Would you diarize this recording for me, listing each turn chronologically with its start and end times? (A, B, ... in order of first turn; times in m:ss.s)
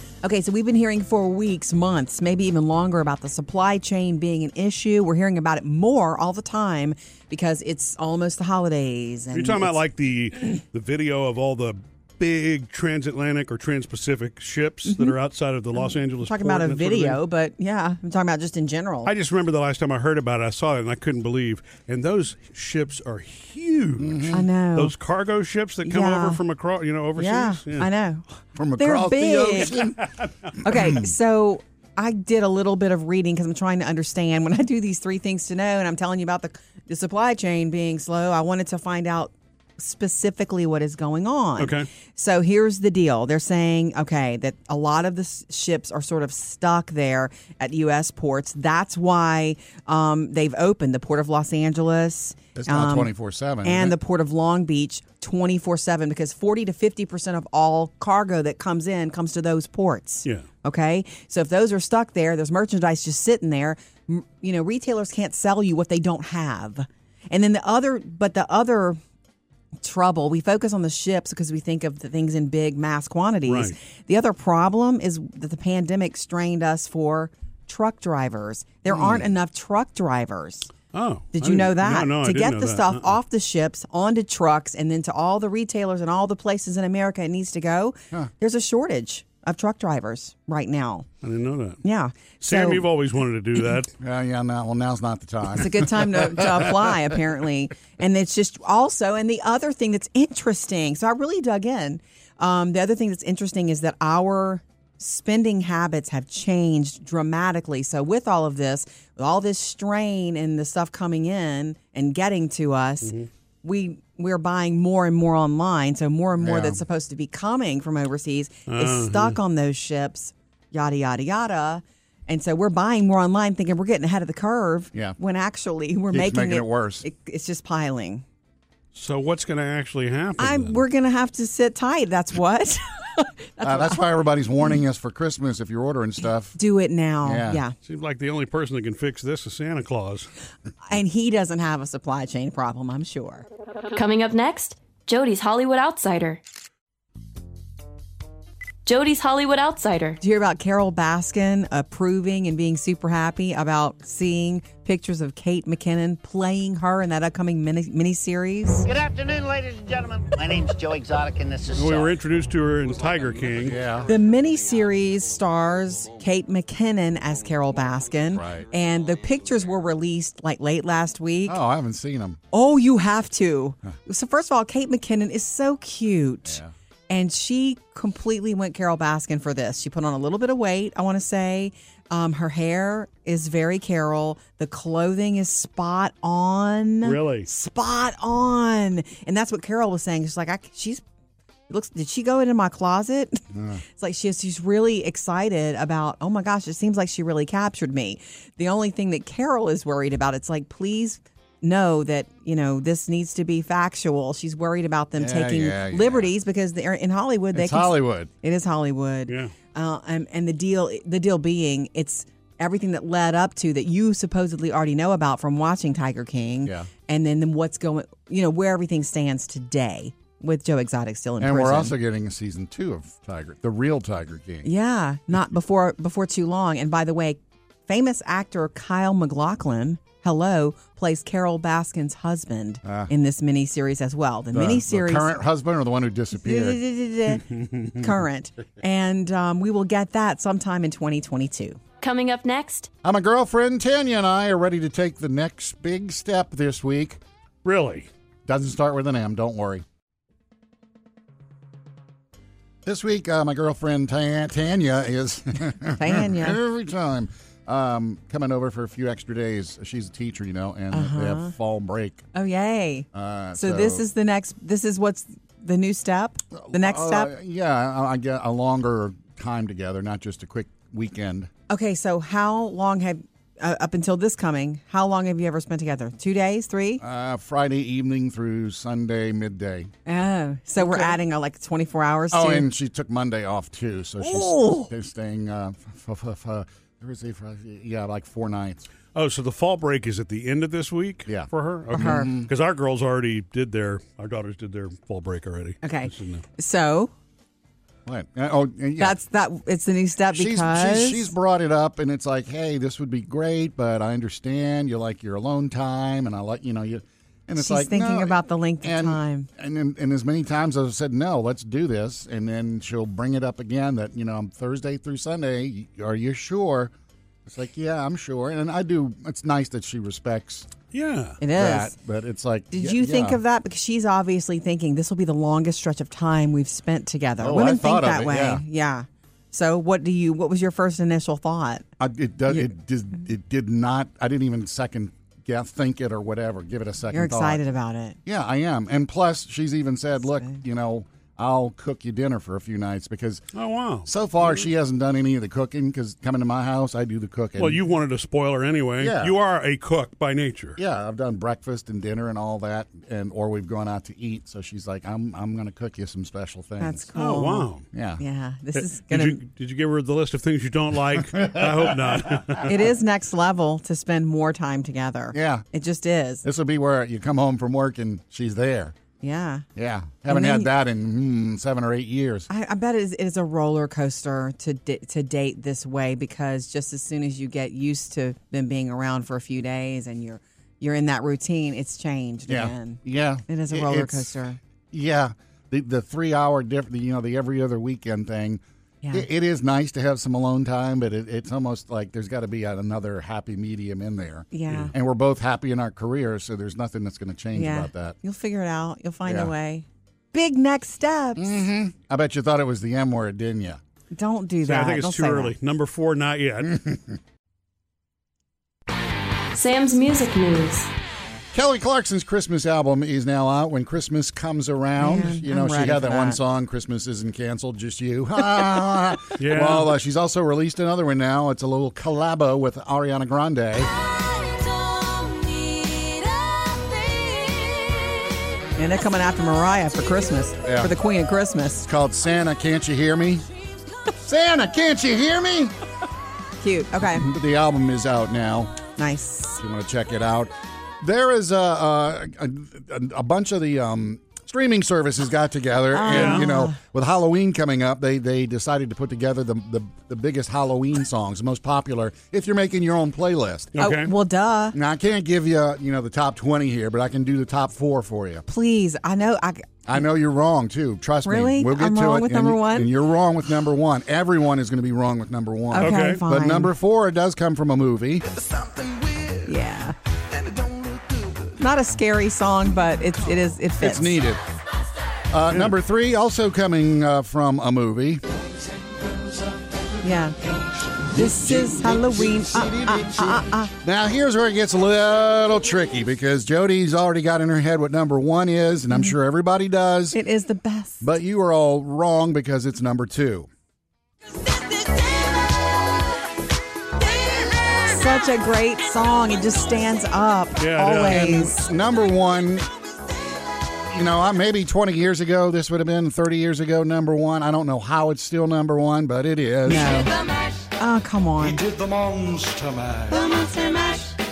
0:00.2-0:09.8 A
0:09.3-0:17.2 B
0:14.9-0:15.2 A
0:15.8-0:19.1 A
0:19.1-0:27.9 B
0:24.0-0:24.5 C
0:24.3-0:24.9 A
0:25.9-0:26.4 A
0:27.2-0:28.2 A
0:28.6-0:30.0 C
0:28.8-0:29.8 A
0:30.0-0:30.3 B
0:30.6-0:53.1 A
0:30.7-0:31.0 C
0:41.6-0:41.9 B
0:52.6-0:54.0 C
0:53.6-1:09.0 A
1:09.8-1:20.7 A
1:13.5-1:13.7 B
1:18.9-1:19.2 C
1:20.9-1:23.1 B
1:21.3-1:31.1 A
1:31.2-1:31.8 B
1:31.8-1:32.9 A
1:32.4-1:33.9 B
1:34.0-1:36.9 C
1:35.6-2:08.2 A
1:53.0-1:53.3 B
1:56.4-1:56.8 C
1:58.7-1:59.4 B
2:06.1-2:07.0 C
2:08.9-2:10.8 B
2:10.4-2:14.0 A
2:13.6-2:16.6 C
2:16.6-2:17.7 A
2:17.2-2:17.6 C
2:17.8-2:20.3 B
2:20.9-2:23.4 A
2:23.9-2:26.4 D
2:28.8-2:30.2 D
2:30.2-2:38.9 A
2:38.9-2:42.1 E
2:41.7-2:43.8 B
2:43.6-2:44.1 C
2:44.1-2:51.6 A
2:48.3-2:48.6 C
2:51.4-2:52.4 C
2:52.5-3:11.0 A
2:56.5-2:56.7 C
3:07.0-3:07.5 B
3:11.7-3:42.0 A
3:13.5-3:13.8 C
3:25.2-3:26.3 C
3:27.5-3:28.3 C
3:29.3-3:29.5 B
3:36.6-3:36.9 C
3:41.4-3:44.7 C
3:44.6-3:55.3 A
3:52.8-3:53.1 C
3:54.5-3:56.8 C
3:56.3-4:01.8 A
3:57.4-3:58.1 B
4:02.0-4:02.9 D
4:03.0-4:07.2 C
4:07.6-4:08.1 B
4:08.5-4:09.8 C
4:12.8-4:22.2 C
4:15.9-4:16.6 A
4:20.9-4:21.5 A
4:22.3-4:27.3 A
4:23.1-4:24.0 C
4:26.5-4:31.5 C
4:31.7-4:37.0 A
4:37.0-4:39.9 C
4:40.1-4:42.7 A
4:42.3-4:48.9 C
4:44.2-4:44.9 A
4:49.2-4:56.4 B
4:51.3-4:52.5 C
4:51.9-4:52.3 A
4:55.8-4:57.1 A
4:58.1-4:59.2 C
4:59.0-5:01.3 A
5:00.3-5:16.9 C
5:07.6-5:09.5 A
5:17.5-5:20.7 C
5:20.9-5:21.4 B
5:21.4-5:22.0 A
5:21.5-5:23.4 C
5:22.7-5:31.9 A
5:27.4-5:28.6 C
5:32.0-5:37.6 C
5:37.1-5:38.2 A
5:38.3-5:43.4 C
5:43.5-5:44.1 B
5:44.1-5:47.8 C
5:47.6-5:50.8 B
5:49.0-5:49.4 C
5:50.8-5:57.0 C
5:56.8-5:59.4 A
5:57.2-5:57.9 B
5:57.9-5:58.2 C
5:58.8-6:02.8 B
6:01.4-6:01.9 C
6:02.6-6:06.4 A
6:05.3-6:05.6 C
6:06.4-6:09.0 C
6:09.2-6:09.7 A
6:09.8-6:12.5 C
6:10.3-6:10.7 A
6:12.5-6:24.6 A
6:22.5-6:24.3 C
6:24.9-6:38.2 C
6:34.5-6:34.9 A
6:37.6-6:41.6 A
6:39.3-6:39.5 C
6:41.4-6:43.8 C
6:44.1-6:45.5 A
6:44.6-6:46.8 B
6:46.7-6:47.0 C
6:49.5-6:50.9 D
6:51.5-7:03.9 C
6:55.0-6:56.4 A
6:59.4-6:59.9 B
7:04.2-7:08.2 D
7:08.8-7:11.9 A
7:10.6-7:10.9 C
7:11.9-7:13.5 C
7:14.2-7:15.7 C
7:16.6-7:17.3 A
7:17.0-7:18.8 C
7:19.0-7:19.6 A
7:19.6-7:33.7 C
7:25.9-7:26.8 A
7:26.1-7:26.4 B
7:33.7-7:34.1 B
7:33.8-7:34.8 A
7:34.7-7:38.4 C
7:38.5-7:39.8 A
7:39.9-7:48.3 C
7:41.2-7:42.9 A
7:45.7-7:46.7 A
7:45.8-7:46.2 B
7:48.6-7:49.3 E
7:49.5-7:50.0 A
7:51.6-7:54.2 A
7:53.8-7:54.4 C
7:55.3-7:58.2 C
8:00.0-8:00.4 A
8:01.1-8:03.7 A
8:01.1-8:10.2 C
8:10.1-8:11.0 A
8:11.0-8:13.5 C
8:17.8-8:21.7 A
8:20.6-8:21.3 B
8:21.0-8:22.7 C
8:23.9-8:30.0 C
8:29.6-8:30.1 A
8:30.8-8:31.6 A
8:31.4-8:33.2 E
8:33.1-8:34.1 A